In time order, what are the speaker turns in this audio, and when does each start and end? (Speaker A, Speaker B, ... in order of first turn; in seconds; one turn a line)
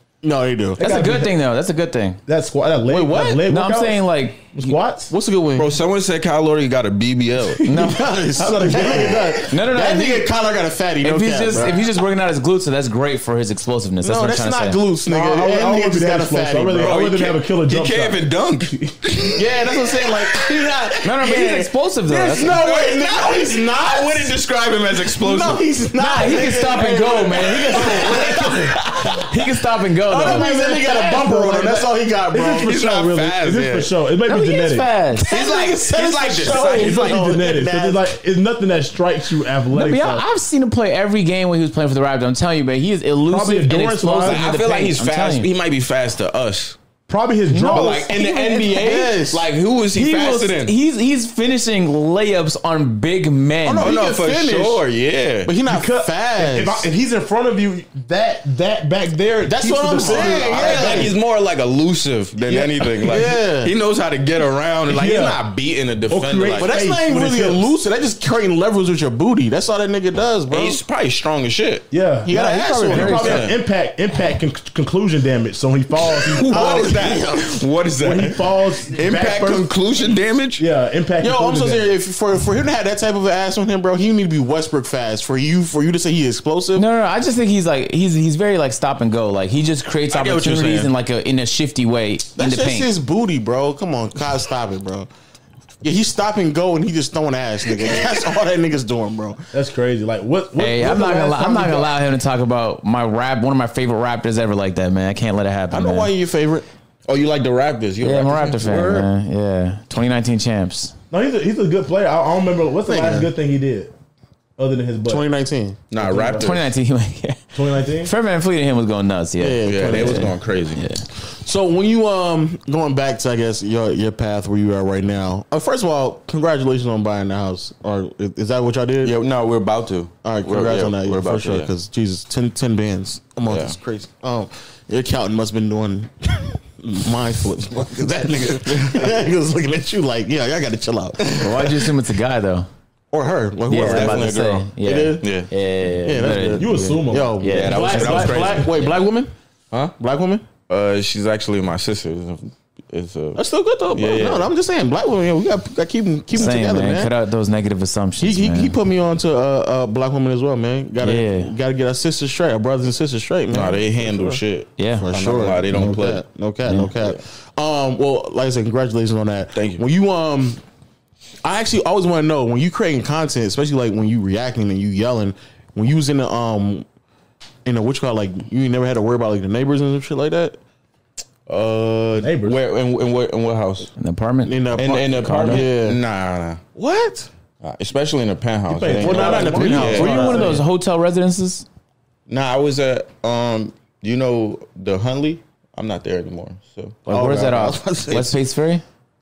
Speaker A: 0.2-0.8
Speaker B: 0.8-1.3
Speaker C: 0.8-2.2
Speaker B: 2.3-5.1
Speaker C: 2.9-4.8
Speaker A: 5.1-5.7
Speaker D: 5.6-7.6
Speaker A: 7.6-11.9
Speaker C: 7.6-8.2
Speaker B: 8.4-9.4
Speaker C: 8.7-10.3
Speaker C: 11.0-14.8
Speaker A: 14.0-16.9
Speaker B: 15.1-18.9
Speaker D: 16.8-20.8
Speaker A: 19.3-24.4
Speaker C: 21.0-22.5
Speaker D: 22.4-25.6
Speaker A: 25.0-28.8
Speaker C: 25.9-30.9
Speaker D: 27.7-29.1
Speaker A: 30.0-32.8
Speaker B: 30.2-34.9
Speaker D: 32.6-33.9
Speaker C: 34.2-35.2
Speaker A: 35.2-38.1
Speaker D: 35.3-37.4
Speaker B: 36.4-40.2
Speaker C: 39.7-45.5
Speaker B: 43.3-44.5
Speaker D: 44.2-46.8
Speaker B: 47.1-48.0
Speaker C: 47.5-48.2
Speaker D: 47.7-50.7
Speaker A: 48.1-49.5
Speaker C: 49.9-54.0
Speaker A: 53.6-54.8
Speaker D: 53.8-55.5
Speaker A: 55.4-56.9
Speaker B: 55.6-61.1
Speaker A: 59.4-61.1
Speaker D: 60.0-66.7
Speaker A: 62.5-63.7
Speaker B: 64.9-65.4
Speaker B: 66.1-67.7
Speaker A: 66.5-70.8
Speaker D: 70.5-71.9
Speaker B: 71.9-76.8
Speaker A: 72.2-73.5
Speaker C: 72.3-73.3
Speaker D: 72.9-73.6
Speaker D: 76.3-80.7
Speaker A: 76.4-77.6
Speaker B: 78.0-79.7
Speaker B: 80.6-81.9
Speaker A: 81.2-86.9
Speaker C: 86.7-92.9
Speaker D: 90.1-90.9
Speaker A: 92.3-95.1
Speaker A: 95.8-99.4
Speaker B: 99.5-101.9
Speaker C: 100.6-106.1
Speaker A: 105.7-106.7
Speaker D: 107.0-109.1
Speaker C: 108.0-110.9
Speaker B: 111.1-113.9
Speaker A: 112.8-113.3
Speaker B: 114.6-115.2
Speaker A: 115.0-115.8
Speaker D: 115.9-116.7
Speaker B: 116.0-116.6
Speaker C: 116.4-121.0
Speaker B: 117.5-118.1
Speaker A: 119.4-120.4
Speaker D: 119.6-120.8
Speaker A: 121.2-129.2
Speaker D: 129.0-131.7
Speaker A: 130.2-141.4
Speaker D: 133.5-133.7
Speaker D: 138.7-139.2
Speaker D: 141.2-141.6
Speaker C: 141.3-142.7
Speaker A: 143.1-145.3
Speaker C: 143.7-148.9
Speaker D: 143.7-144.7
Speaker D: 145.2-145.5
Speaker A: 146.0-149.3
Speaker B: 146.5-148.6
Speaker D: 147.5-148.8
Speaker A: 150.0-150.4
Speaker D: 150.7-154.5
Speaker A: 153.3-157.1
Speaker C: 156.3-158.7
Speaker A: 158.2-164.4
Speaker C: 161.0-161.5
Speaker D: 163.5-166.2
Speaker C: 164.8-165.1
Speaker A: 165.0-170.6
Speaker C: 166.7-166.9
Speaker D: 169.5-169.8
Speaker A: 171.4-176.8
Speaker A: 177.6-180.6
Speaker D: 181.5-183.9
Speaker B: 182.2-182.6
Speaker C: 184.0-185.7
Speaker A: 184.4-186.0
Speaker D: 184.8-186.6
Speaker A: 186.8-187.3
Speaker D: 187.6-190.5
Speaker B: 188.7-190.6
Speaker A: 188.9-190.6
Speaker C: 189.6-191.7
Speaker D: 192.3-197.0
Speaker A: 197.1-198.3
Speaker C: 197.1-198.8